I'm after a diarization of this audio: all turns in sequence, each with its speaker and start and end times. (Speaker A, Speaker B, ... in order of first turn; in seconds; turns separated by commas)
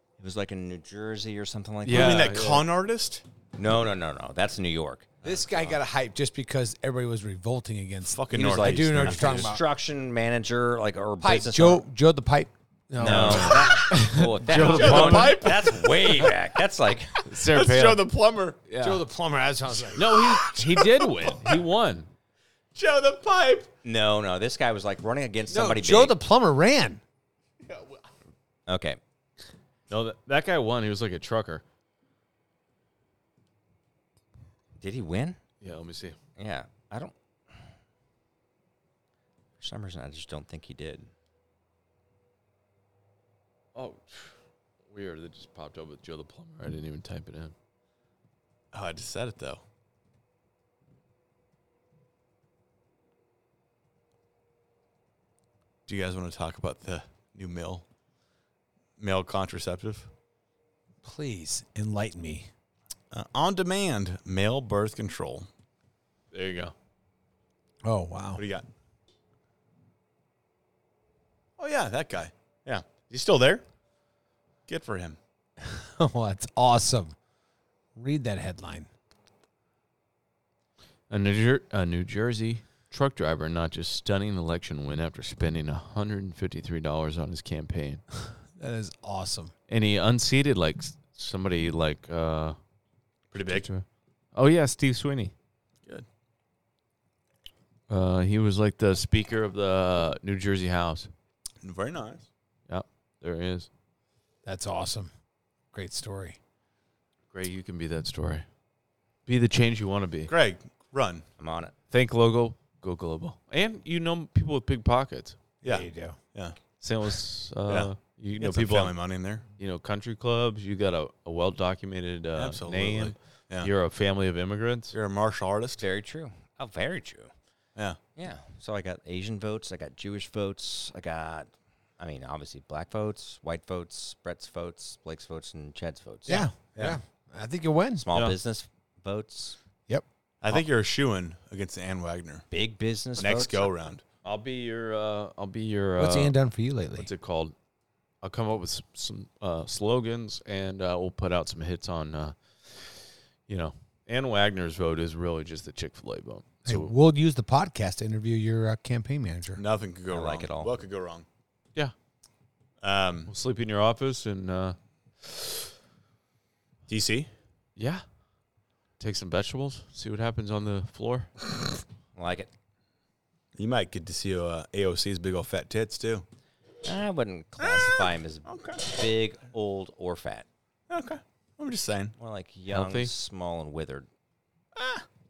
Speaker A: 0.2-2.4, Speaker B: 1.8-2.6, Speaker C: 1.9-3.2, Speaker A: 3.6-5.2, Speaker D: 5.2-9.6, Speaker C: 8.1-9.6, Speaker A: 8.3-11.8, Speaker D: 11.2-15.4, Speaker A: 13.0-17.2, Speaker B: 13.0-15.4, Speaker C: 14.5-16.4, Speaker C: 17.3-18.6, Speaker B: 17.3-18.0, Speaker B: 18.7-19.0, Speaker D: 18.8-20.1, Speaker B: 20.0-22.1, Speaker C: 20.0-21.6, Speaker C: 22.8-23.7, Speaker A: 23.8-26.2, Speaker D: 25.5-27.0, Speaker C: 27.6-28.0, Speaker A: 28.7-29.0, Speaker B: 29.9-31.6, Speaker A: 34.8-35.4, Speaker B: 35.6-36.2, Speaker A: 36.4-37.6, Speaker A: 39.6-41.1, Speaker B: 43.8-44.4, Speaker B: 44.9-47.5, Speaker C: 48.7-49.6, Speaker C: 55.9-57.9, Speaker C: 59.0-60.1, Speaker D: 61.0-62.5, Speaker C: 63.1-65.5, Speaker B: 66.3-66.7, Speaker D: 67.8-68.4, Speaker C: 68.4-68.7, Speaker C: 71.6-73.7, Speaker C: 74.7-75.2, Speaker D: 75.6-77.2, Speaker D: 78.0-78.9, Speaker B: 81.1-88.0, Speaker D: 88.6-89.5, Speaker B: 89.7-92.6, Speaker C: 93.3-93.7, Speaker B: 93.4-95.3, Speaker B: 97.9-101.1, Speaker C: 101.6-102.3, Speaker B: 102.7-103.7, Speaker D: 104.5-105.1, Speaker D: 105.7-106.4, Speaker B: 107.3-108.5, Speaker B: 109.3-110.3, Speaker C: 110.3-111.2, Speaker A: 111.4-111.7, Speaker B: 111.9-115.4, Speaker C: 115.6-116.6, Speaker D: 115.7-116.2, Speaker B: 116.8-119.0, Speaker C: 117.7-119.5, Speaker B: 119.6-124.9, Speaker C: 122.4-123.7, Speaker C: 124.9-125.8, Speaker A: 125.8-127.3, Speaker A: 128.2-136.5, Speaker D: 136.3-138.1, Speaker A: 138.0-139.6, Speaker C: 140.4-142.4, Speaker A: 142.5-143.7, Speaker C: 143.2-144.0, Speaker B: 144.2-146.4, Speaker D: 146.0-147.1, Speaker B: 147.0-147.5, Speaker B: 148.2-156.9, Speaker D: 156.7-159.6, Speaker C: 159.6-161.3, Speaker A: 160.1-160.7, Speaker C: 162.8-163.3, Speaker B: 163.3-165.5, Speaker C: 166.9-167.3, Speaker B: 167.8-168.0, Speaker B: 169.0-171.3, Speaker A: 172.2-172.5, Speaker C: 173.6-176.2, Speaker A: 176.8-180.5, Speaker C: 177.6-178.9, Speaker C: 180.9-182.1, Speaker A: 182.2-184.1, Speaker B: 182.7-183.1, Speaker C: 184.8-185.1